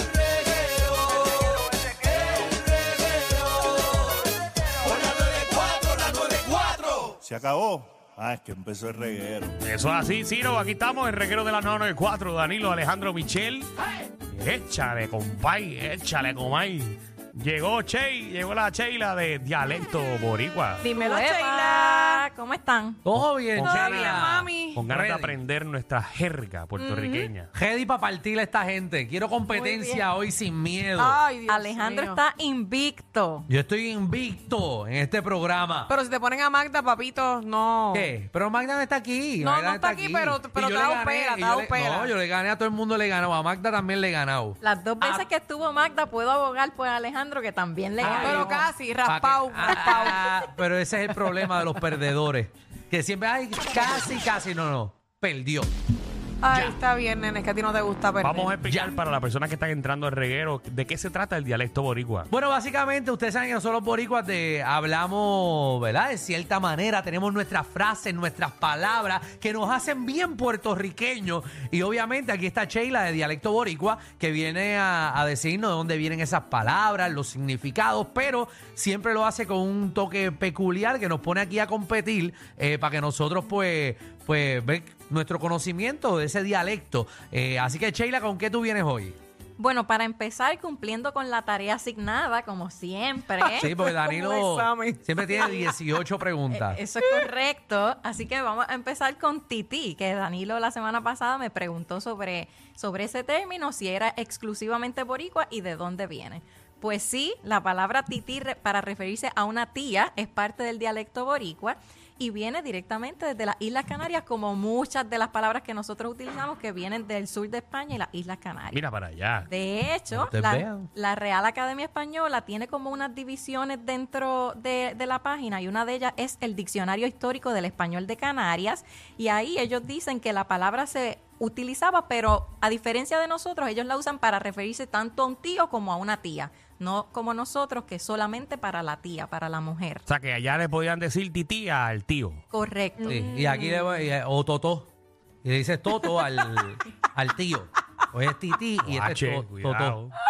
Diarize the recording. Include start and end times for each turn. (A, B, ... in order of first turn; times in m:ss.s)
0:04.8-0:09.6 A
0:09.6-0:13.7 B
0:14.3-0:20.8 B
0:20.8-0:23.0 C
0:20.9-0:22.2 D
0:23.0-0:24.3 E
0:23.5-0:27.5 B
0:23.6-0:24.9 D
0:24.9-0:25.4 E
0:26.8-0:27.3 C
0:27.5-0:31.2 E
0:29.5-0:30.0 C
0:30.9-0:32.2 D
0:31.5-0:33.5 C
0:33.5-0:35.9 E
0:35.9-0:38.1 D
0:37.9-0:44.6 E
0:39.4-0:42.2 D
0:44.6-0:48.7 C
0:48.0-0:50.5 D
0:48.0-0:48.5 E
0:49.0-0:55.7 E
0:56.4-0:58.6 D
0:58.2-1:02.3 B
0:58.7-0:58.9 E
1:02.3-1:29.2 E
1:29.6-1:33.7 C
1:33.6-1:35.8 D
1:33.6-1:36.8 E
1:35.3-1:35.7 C
1:36.5-1:58.8 C
1:58.7-1:59.5 B
1:59.5-2:20.0 C
2:00.2-2:00.9 E
2:20.1-2:22.4 B
2:22.5-2:23.2 C
2:23.0-2:24.1 D
2:23.1-2:24.9 E
2:25.4-2:30.0 E
2:25.9-2:26.6 D
2:28.8-2:30.2 B